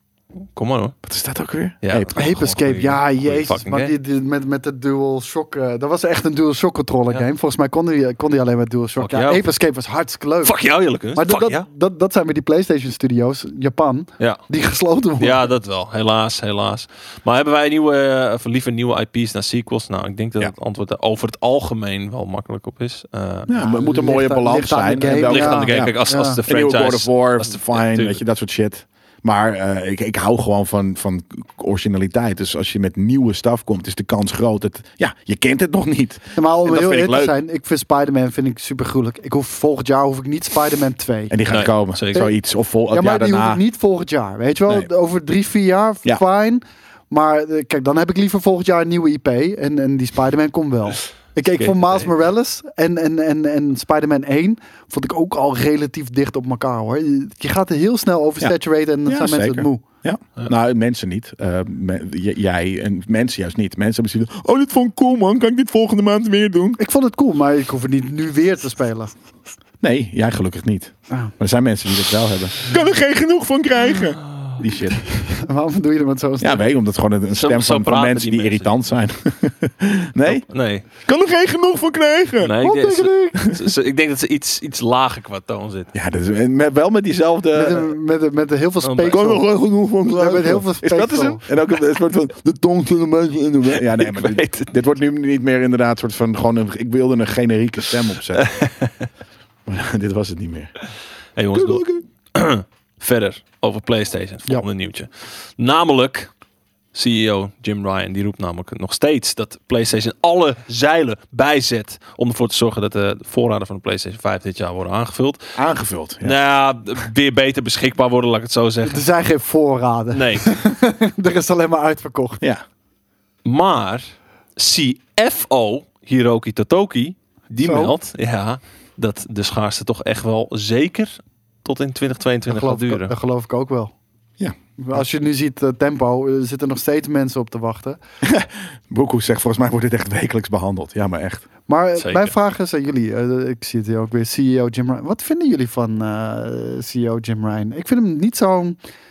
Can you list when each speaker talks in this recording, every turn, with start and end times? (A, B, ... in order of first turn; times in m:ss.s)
0:00.5-0:01.0 A
0:01.0-0:02.2 B
0:01.8-0:03.9 A
0:02.2-0:10.6 C
0:09.0-0:09.5 A
0:10.4-0:11.7 A
0:11.2-0:15.5 C
0:15.2-0:23.5 A
0:23.5-0:37.4 B
0:23.5-0:26.4 C
0:25.1-0:28.2 A
0:36.4-0:41.4 C
0:41.3-0:43.6 B
0:41.5-0:42.3 A
0:42.9-0:59.8 C
0:51.6-0:52.1 A
0:59.1-1:06.8 B
1:06.8-1:09.2 C
1:09.8-1:15.1 B
1:15.2-1:16.6 C
1:16.4-1:22.6 B
1:17.3-1:18.7 A
1:20.3-1:20.9 A
1:22.4-1:25.9 A
1:22.6-1:23.4 C
1:23.4-1:23.7 B
1:25.9-1:27.9 B
1:27.5-1:31.4 C
1:28.8-1:29.2 A
1:29.1-1:38.5 B
1:33.8-1:34.7 A
1:38.4-1:39.1 A
1:39.7-1:40.7 B
1:41.4-1:46.3 A
1:41.5-1:42.0 B
1:46.9-1:55.6 A
1:55.6-1:56.4 B
1:56.2-1:59.0 A
1:58.8-2:02.4 C
2:00.1-2:00.5 A
2:03.4-2:13.1 A
2:07.6-2:07.9 C
2:12.5-2:13.9 C
2:14.8-2:18.0 C
2:18.2-2:21.5 B
2:21.7-2:28.8 C
2:22.0-2:22.3 A